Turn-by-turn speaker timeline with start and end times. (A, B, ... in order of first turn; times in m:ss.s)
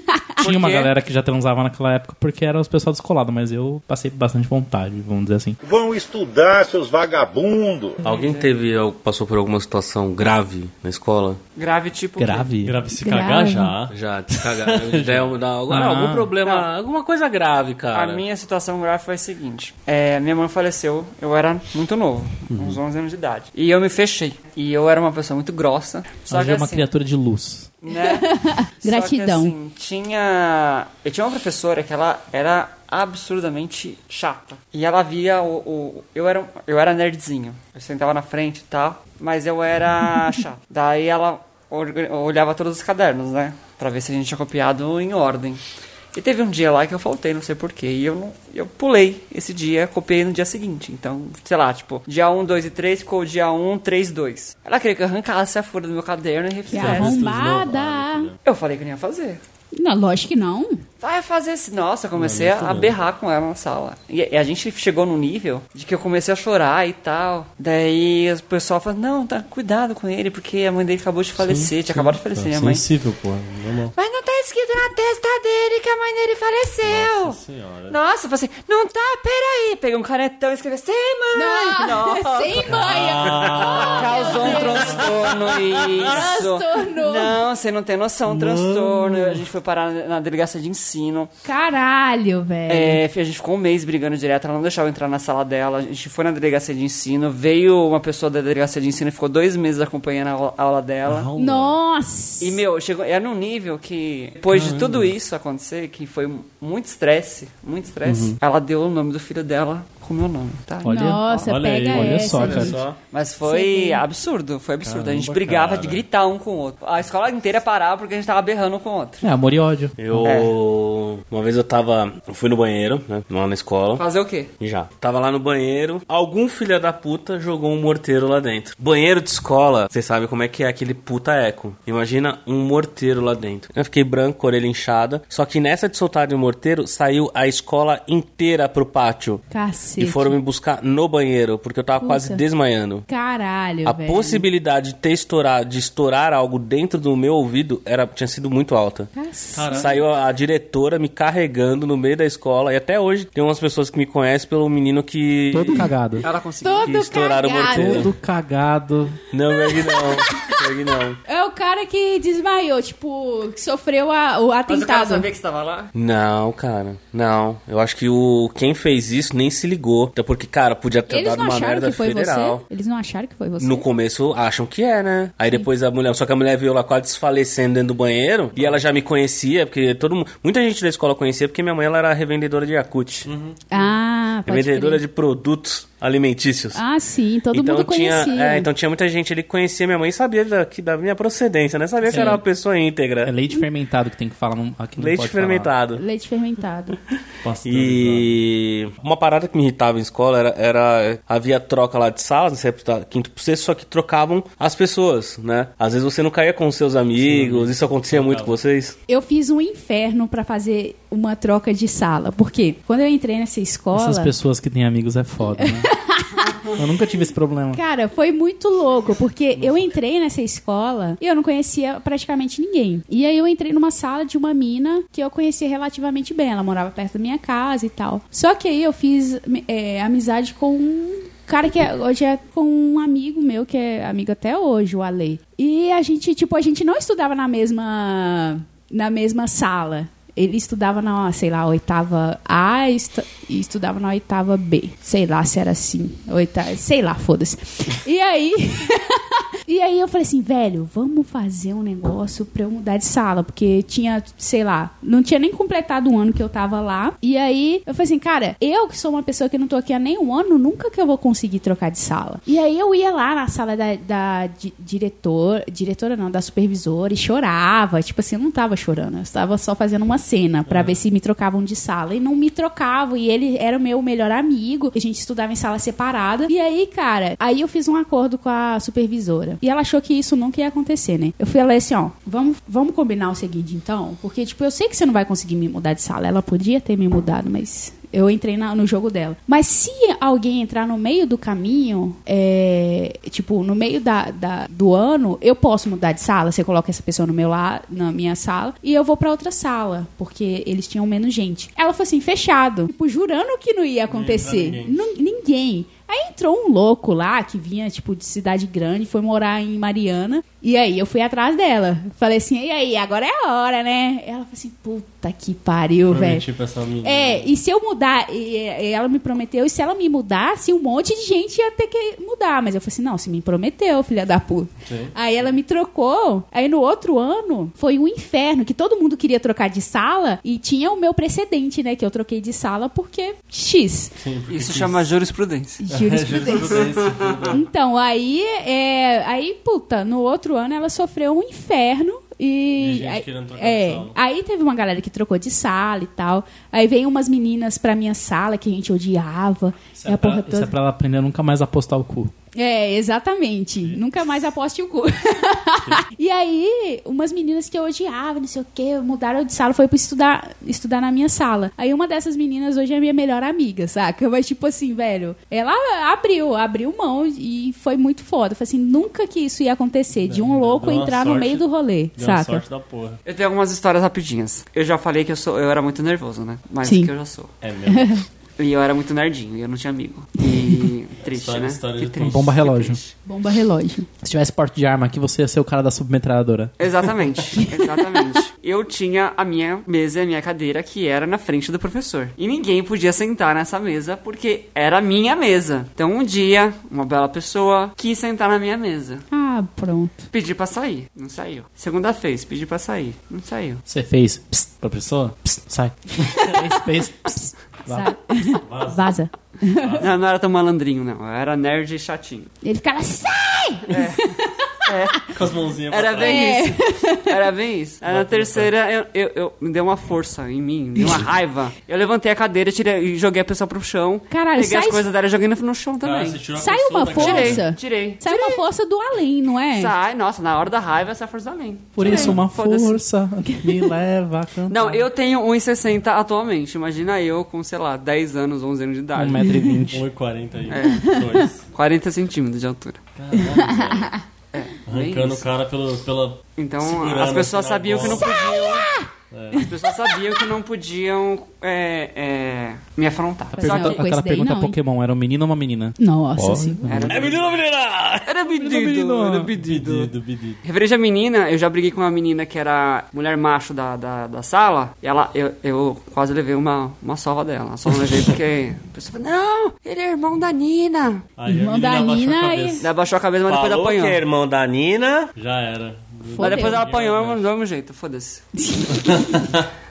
0:00.4-0:05.6 A
0:00.4-0:00.9 B
0:05.6-0:08.0 C
0:08.0-0:11.4 D
0:08.0-0:08.5 B
0:11.6-0:12.5 B
0:12.2-0:12.8 A
0:12.6-0:15.4 E
0:13.0-0:13.8 F
0:13.9-0:18.2 D
0:15.7-0:16.3 A
0:16.4-0:16.7 B
0:17.9-0:26.9 B
0:22.5-0:22.8 E
0:26.3-0:27.7 A
0:27.8-0:45.6 B
0:27.9-0:29.5 F
0:46.1-0:57.2 B
0:56.7-0:58.3 F
0:56.7-0:58.4 E
0:58.4-0:59.4 B
0:59.7-1:00.8 F
1:01.0-1:12.8 B
1:02.2-1:03.0 E
1:11.4-1:13.9 E
1:14.0-1:22.8 B
1:16.8-1:18.0 E
1:21.3-1:25.0 F
1:22.6-1:25.1 E
1:23.8-1:31.3 B
1:25.0-1:26.1 D
1:26.0-1:27.4 F
1:28.3-1:29.4 E
1:31.4-1:33.0 F
1:32.7-1:41.3 B
1:41.0-1:41.8 E
1:41.4-1:42.6 F
1:42.4-1:51.5 B
1:44.5-1:45.1 E
1:48.0-1:48.4 E
1:50.8-1:51.2 A
1:50.8-1:52.7 F
1:51.4-1:52.7 E
1:51.9-1:52.8 A
1:52.4-1:59.2 B
1:52.5-1:53.0 D
1:53.4-1:54.0 F
1:54.8-1:56.0 E
1:59.2-2:00.4 A
2:00.0-2:04.0 D
2:00.2-2:00.6 B
2:04.0-2:04.5 B
2:04.6-2:19.4 D
2:19.5-2:20.4 F
2:20.0-2:23.1 D
2:22.0-2:22.4 F
2:23.1-2:24.4 F
2:23.8-2:29.1 D
2:29.1-2:30.0 F
2:29.5-2:30.0 E
2:29.7-2:35.9 D
2:35.5-2:36.2 A
2:36.2-2:37.2 B
2:36.6-2:38.1 F
2:36.8-2:38.1 D
2:37.6-2:39.2 A
2:39.3-2:41.2 D
2:39.5-2:40.6 F
2:41.2-2:45.3 F
2:44.7-2:45.9 B
2:45.9-2:52.6 D
2:51.1-2:53.8 F
2:53.6-3:03.3 D
3:03.2-3:03.8 E
3:03.7-3:05.0 F
3:04.4-3:06.8 D
3:06.7-3:08.7 F
3:07.5-3:13.3 D
3:12.0-3:12.4 A
3:13.2-3:15.7 A
3:15.0-3:16.0 D
3:15.9-3:17.0 F
3:17.4-3:18.4 E
3:17.6-3:29.0 D
3:27.1-3:28.6 E
3:29.1-3:34.3 F
3:33.9-3:35.9 A
3:35.6-3:36.6 F
3:36.8-3:37.8 A
3:37.7-5:16.4 F
3:39.6-3:39.9 E
4:30.7-4:31.0 E
5:04.1-5:05.0 E
5:16.1-5:17.5 E
5:17.0-5:34.1 F
5:24.8-5:25.5 E
5:34.2-5:35.1 E
5:34.5-5:35.8 B
5:35.8-5:36.9 F
5:35.9-5:37.6 E
5:37.0-5:37.4 B
5:37.5-5:50.7 F
5:42.8-5:44.2 E
5:50.0-5:52.3 A
5:52.5-6:12.6 F
5:53.8-5:54.1 E
6:10.2-6:11.6 E
6:12.2-6:13.2 E
6:13.2-6:17.5 B
6:16.8-6:17.1 F
6:17.6-6:18.2 E
6:17.9-6:18.2 F
6:18.6-6:23.1 B
6:20.6-6:20.9 F
6:21.3-6:22.4 E
6:22.2-6:23.0 A
6:23.2-6:24.1 F
6:24.2-6:26.7 A
6:26.8-6:39.2 B
6:27.6-6:28.4 F
6:39.3-6:40.2 F
6:40.3-6:43.8 B
6:43.9-6:48.1 A
6:46.2-6:46.6 F
6:47.2-6:50.0 F
6:48.5-6:50.1 E
6:50.0-6:52.5 B
6:52.6-6:54.7 F
6:53.9-7:06.4 B
6:55.3-6:56.6 E
6:56.2-6:57.3 F
6:58.0-6:58.7 E
7:04.3-7:05.0 F
7:06.0-7:07.7 E
7:06.6-7:09.9 F
7:07.1-7:08.6 B
7:09.7-7:13.0 B
7:11.9-7:15.0 A
7:12.0-7:12.4 E
7:14.7-7:19.5 B
7:19.1-7:20.0 A
7:19.9-7:21.6 E
7:20.7-7:23.1 B
7:20.8-7:21.4 F
7:23.2-7:24.2 E
7:23.3-7:24.1 F
7:24.5-7:25.4 B
7:24.9-7:29.7 E
7:26.6-7:28.8 B
7:28.0-7:29.6 F
7:29.6-7:34.0 B
7:33.5-7:34.8 F
7:33.6-7:37.1 A
7:36.0-7:36.8 F
7:36.9-7:37.4 B
7:36.9-7:37.5 E
7:37.1-7:38.3 D
7:38.2-7:51.2 B
7:38.6-7:39.5 A
7:39.5-7:40.6 E
7:51.4-7:52.9 E
7:51.4-7:52.8 F
7:52.8-7:54.2 B
7:53.5-7:55.3 D
7:55.4-7:57.4 E
7:56.3-7:56.8 F
7:56.4-7:58.5 B
7:58.6-7:59.4 F
7:58.9-7:59.6 E